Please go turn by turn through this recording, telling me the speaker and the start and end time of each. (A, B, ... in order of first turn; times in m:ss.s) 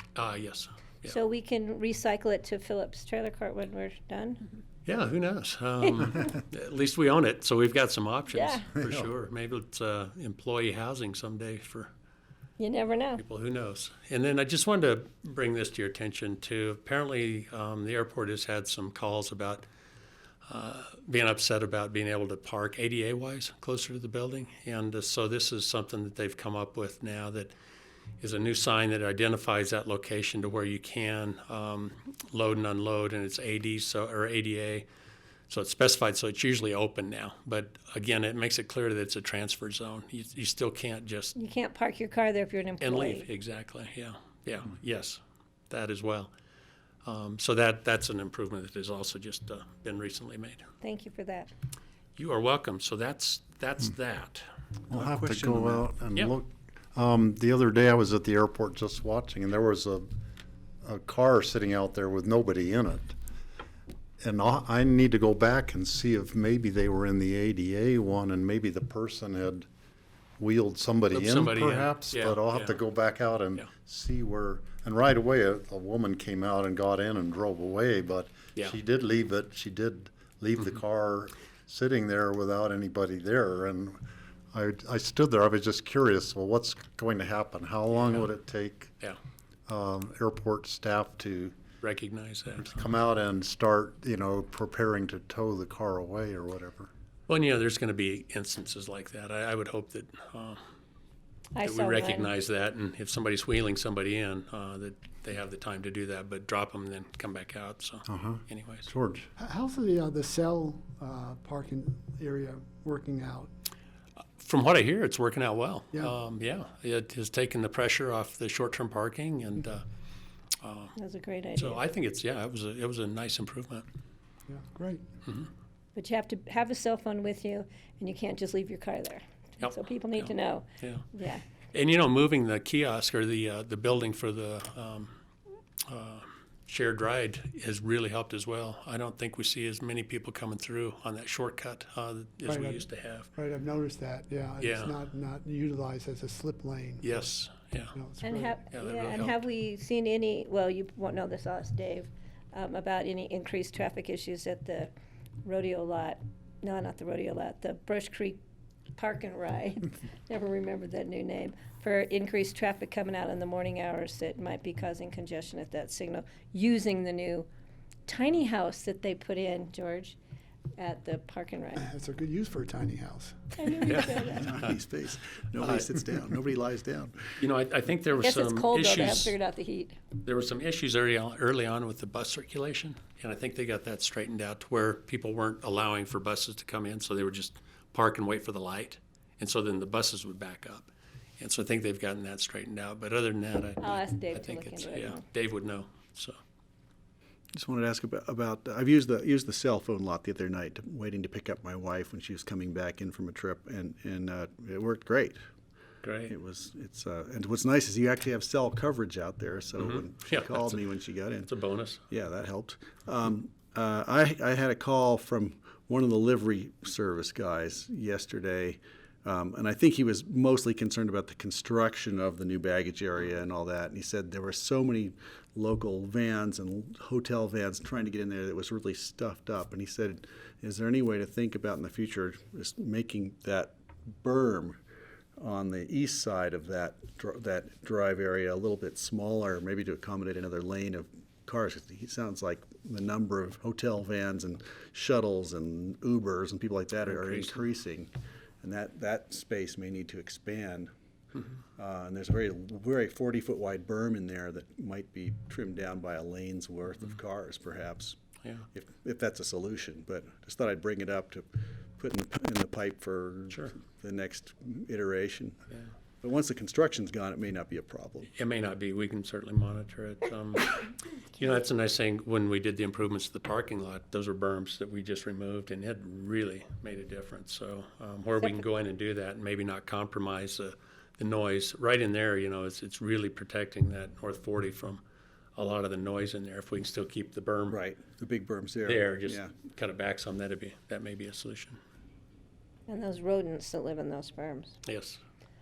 0:00.2-0:01.2 A
0:01.0-0:04.4 B
0:04.9-0:11.9 A
0:08.3-0:08.7 B
0:12.6-0:13.2 B
0:13.2-0:19.7 A
0:20.5-0:27.5 A
0:28.2-0:34.9 A
0:35.5-0:41.4 A
0:41.4-0:43.3 B
0:42.8-0:46.3 A
0:47.0-0:50.6 A
0:50.8-0:51.5 B
0:52.2-0:54.5 A
0:54.9-1:00.1 C
0:54.9-0:55.9 D
1:00.8-1:03.1 C
1:04.2-1:09.7 C
1:10.4-1:24.0 C
1:11.1-1:12.8 A
1:24.5-1:28.9 C
1:27.9-1:28.3 A
1:29.7-1:31.5 C
1:31.8-1:32.9 A
1:32.6-1:36.9 C
1:37.3-1:40.6 A
1:41.6-1:42.3 B
1:41.6-1:48.9 A
1:48.1-1:49.3 C
1:49.4-1:53.5 E
1:54.4-1:59.8 A
2:00.6-2:01.0 A
2:01.0-2:01.8 B
2:01.6-2:03.8 A
2:04.5-2:05.0 E
2:06.0-2:11.4 B
2:09.6-2:11.0 A
2:11.7-2:15.1 A
2:15.9-2:23.3 A
2:22.5-2:22.8 E
2:23.4-2:27.0 E
2:24.6-2:25.0 A
2:27.0-2:27.9 A
2:28.0-2:28.6 E
2:28.2-2:34.9 B
2:28.7-2:29.4 A
2:35.4-2:38.4 B
2:39.0-2:47.5 B
2:48.1-2:50.2 B
2:50.8-2:51.9 B
2:51.8-2:53.6 E
2:53.6-2:54.5 B
2:53.9-2:54.7 A
2:54.3-2:57.4 D
2:57.4-2:59.4 A
2:58.2-3:00.0 B
3:00.2-3:16.4 A
3:13.8-3:15.2 B
3:17.5-3:25.4 D
3:26.0-3:26.3 A
3:26.3-3:31.5 D
3:29.8-3:30.8 A
3:31.4-3:32.0 A
3:32.1-3:54.8 D
3:55.4-4:08.1 D
4:07.1-4:07.6 A
4:08.6-4:10.9 D
4:11.8-4:18.2 D
4:18.4-4:18.7 A
4:18.7-4:25.6 D
4:26.2-4:28.3 D
4:28.3-4:45.0 A
4:45.6-4:47.8 A
4:47.7-4:49.5 D
4:48.8-4:51.8 A
4:52.9-4:54.8 B
4:54.9-4:55.2 A